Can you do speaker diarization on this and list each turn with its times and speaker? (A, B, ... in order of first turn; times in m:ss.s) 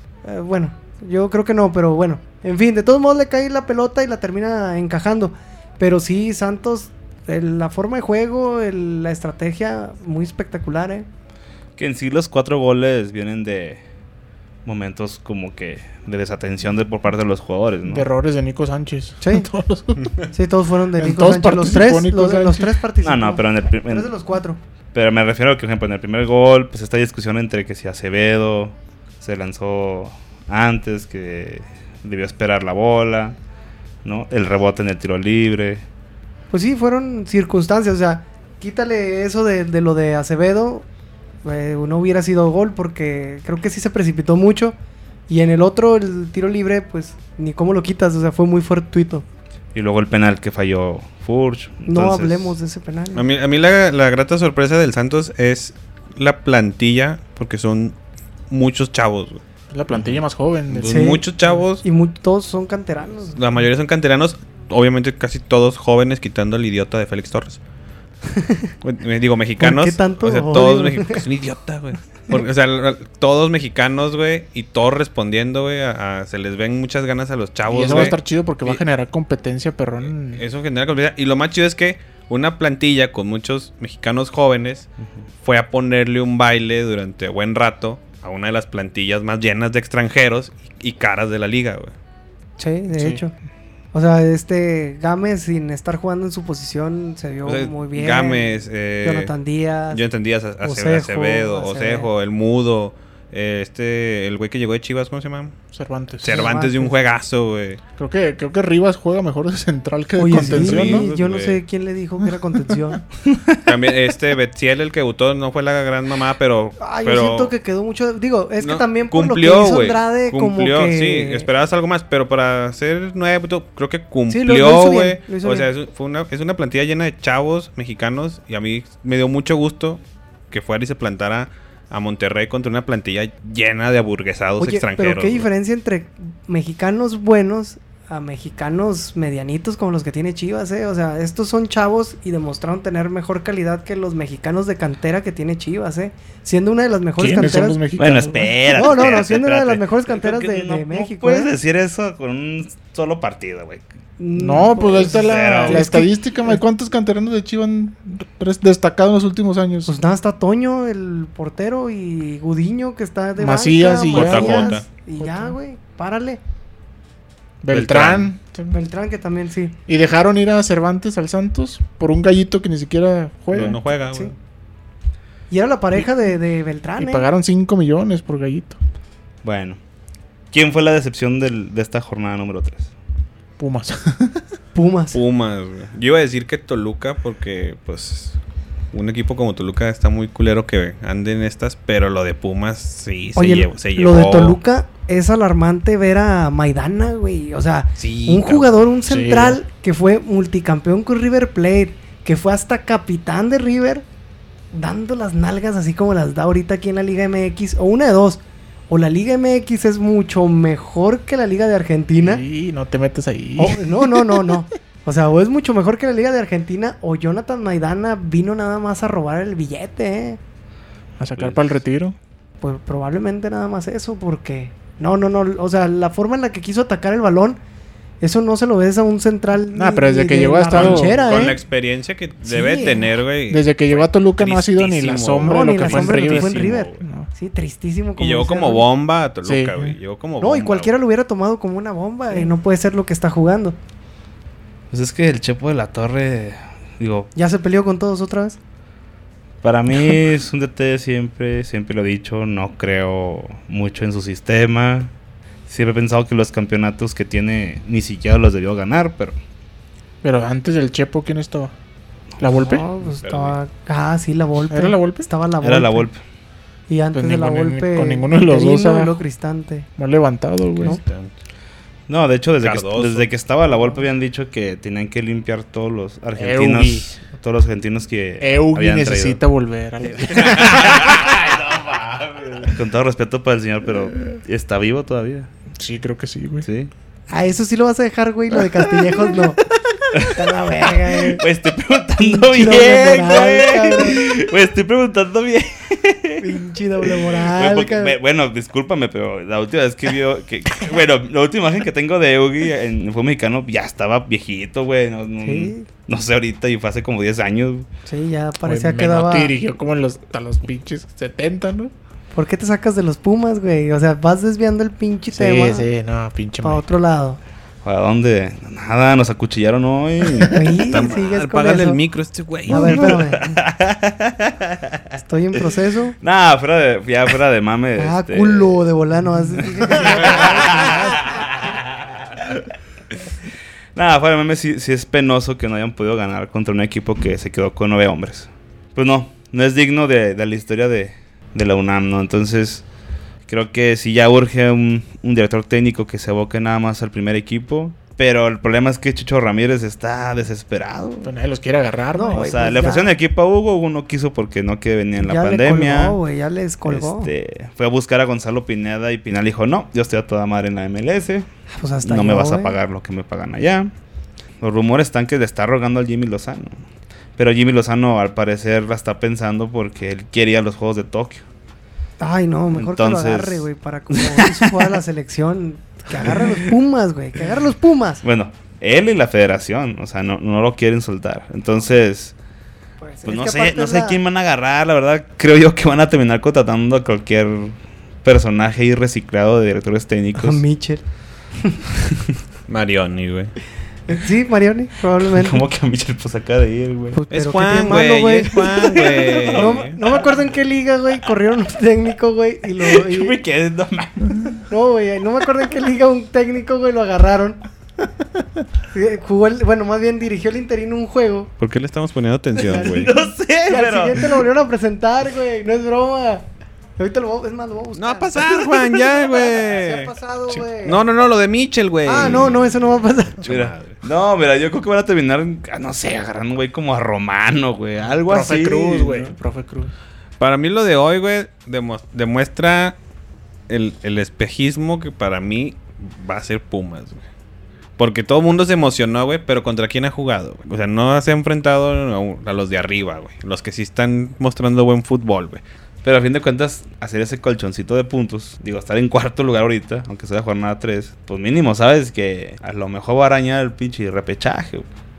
0:00.2-0:11.1 A
0:11.8-0:13.8 B
0:14.6-0:18.1 B
0:17.9-0:20.1 C
0:19.2-0:19.5 A
0:20.3-0:24.6 A
0:21.0-0:22.8 C
0:23.0-0:24.1 B
0:24.9-0:33.4 B
0:34.0-0:35.8 B
0:36.5-0:40.9 A
0:41.4-0:44.8 A
0:45.3-0:49.2 A
0:49.7-0:52.6 B
0:51.9-0:53.2 A
0:53.2-0:58.0 D
0:58.5-0:59.4 D
0:59.7-1:01.1 C
1:00.7-1:01.8 D
1:00.9-1:01.2 A
1:01.8-1:03.4 A
1:03.4-1:07.6 D
1:08.3-1:08.7 A
1:08.8-1:18.8 D
1:09.6-1:11.2 A
1:17.7-1:20.4 C
1:20.3-1:24.9 D
1:25.4-1:31.9 D
1:32.6-1:33.3 A
1:32.9-1:33.2 C
1:33.9-1:40.0 A
1:37.5-1:39.3 D
1:39.9-1:45.6 D
1:40.6-1:42.1 A
1:45.7-1:46.5 C
1:46.2-1:47.8 D
1:46.3-1:46.9 A
1:48.0-1:51.1 C
1:50.2-1:53.0 A
1:50.4-1:51.6 D
1:53.3-1:53.6 B
1:53.6-1:57.5 D
1:56.8-2:01.5 A
1:58.6-2:15.5 D
2:04.3-2:05.7 A
2:14.6-2:27.8 A
2:27.2-2:28.6 C
2:28.0-2:33.8 B
2:28.7-2:31.5 A
2:34.2-2:36.6 A
2:34.4-2:39.9 C
2:35.0-2:35.9 B
2:39.9-2:46.4 A
2:43.4-2:45.6 C
2:44.1-2:44.8 D
2:47.6-2:48.8 C
2:47.7-2:48.3 B
2:48.7-2:49.8 A
2:49.9-2:53.8 C
2:53.5-2:54.3 D
2:55.5-2:57.3 A
2:57.0-2:58.8 C
2:59.4-2:59.8 B
3:00.5-3:02.9 B
3:03.6-3:04.4 C
3:04.8-3:05.2 A
3:05.1-3:08.4 D
3:08.9-3:14.6 D
3:13.4-3:24.0 A
3:18.0-3:18.8 D
3:19.1-3:19.6 C
3:24.7-3:32.4 A
3:32.2-3:34.6 C
3:33.6-3:40.4 A
3:41.2-3:42.2 C
3:42.6-3:47.6 A
3:48.2-3:51.6 A
3:49.7-3:51.2 C
3:50.7-3:57.0 D
3:52.4-3:53.2 A
3:53.5-3:57.3 C
3:55.4-3:58.8 A
3:58.2-4:00.9 D
3:59.4-4:00.0 C
4:00.4-4:03.8 A
4:04.9-4:07.3 B
4:07.4-4:08.6 A
4:09.6-4:15.1 B
4:15.7-4:19.4 B
4:20.2-4:21.7 C
4:22.4-4:22.9 C
4:22.4-4:26.1 A
4:23.2-4:23.6 D
4:24.7-4:25.3 C
4:25.6-4:26.2 B
4:26.9-4:29.9 A
4:27.1-4:29.2 C
4:30.0-4:31.0 C
4:30.8-4:31.3 D
4:32.1-4:39.4 B
4:32.6-4:33.3 D
4:36.4-4:37.2 C
4:38.4-4:41.3 C
4:40.3-4:45.5 B
4:45.8-4:46.7 C
4:46.6-4:46.9 B
4:47.3-4:49.6 A
4:50.1-4:50.6 B
4:50.3-4:51.4 A
4:51.2-4:56.5 B
4:52.2-4:54.3 A
4:56.4-4:58.2 A
4:57.5-5:07.9 B
5:05.4-5:05.9 A
5:08.1-5:09.6 A
5:08.6-5:11.9 C
5:12.3-5:15.9 A
5:15.3-5:16.8 C
5:16.6-5:17.4 A
5:17.8-5:20.7 B
5:20.5-5:22.0 A
5:20.8-5:23.2 D
5:22.7-5:25.2 B
5:22.7-5:23.6 A
5:25.2-5:26.2 A
5:26.2-5:28.8 B
5:28.0-5:30.8 A
5:29.8-5:32.7 B
5:30.0-5:31.0 C
5:34.0-5:42.8 B
5:43.5-5:51.3 B
5:51.2-5:52.6 C
5:52.1-5:53.1 A
5:52.3-5:56.2 B
5:55.2-5:57.3 A
5:56.9-6:01.5 B
6:01.7-6:02.8 A
6:02.0-6:03.9 B
6:04.6-6:06.8 B
6:07.4-6:11.4 B
6:12.2-6:18.2 A
6:12.7-6:13.7 B
6:14.2-6:14.9 B
6:16.3-6:16.6 B
6:18.2-6:22.4 B
6:23.0-6:24.2 A
6:23.2-6:30.6 B
6:30.4-6:31.0 A
6:32.7-6:33.5 D
6:34.1-6:35.6 A
6:35.2-6:37.2 B
6:37.1-6:43.4 A
6:37.3-6:40.0 D
6:39.0-6:40.3 B
6:42.8-6:44.7 B
6:44.7-6:47.6 A
6:48.9-6:51.5 A
6:51.6-6:53.1 D
6:52.6-6:54.4 B
6:52.7-6:53.1 A
6:53.6-6:56.4 A
6:57.0-6:58.5 A
6:58.0-7:02.7 D
6:58.6-6:59.5 B
6:59.6-7:01.0 A
7:02.0-7:03.4 A
7:02.2-7:02.8 B
7:03.4-7:04.0 D
7:03.4-7:09.4 B
7:08.3-7:09.9 C
7:10.4-7:13.0 D
7:13.7-7:17.2 D
7:18.0-7:25.6 D
7:26.0-7:34.9 B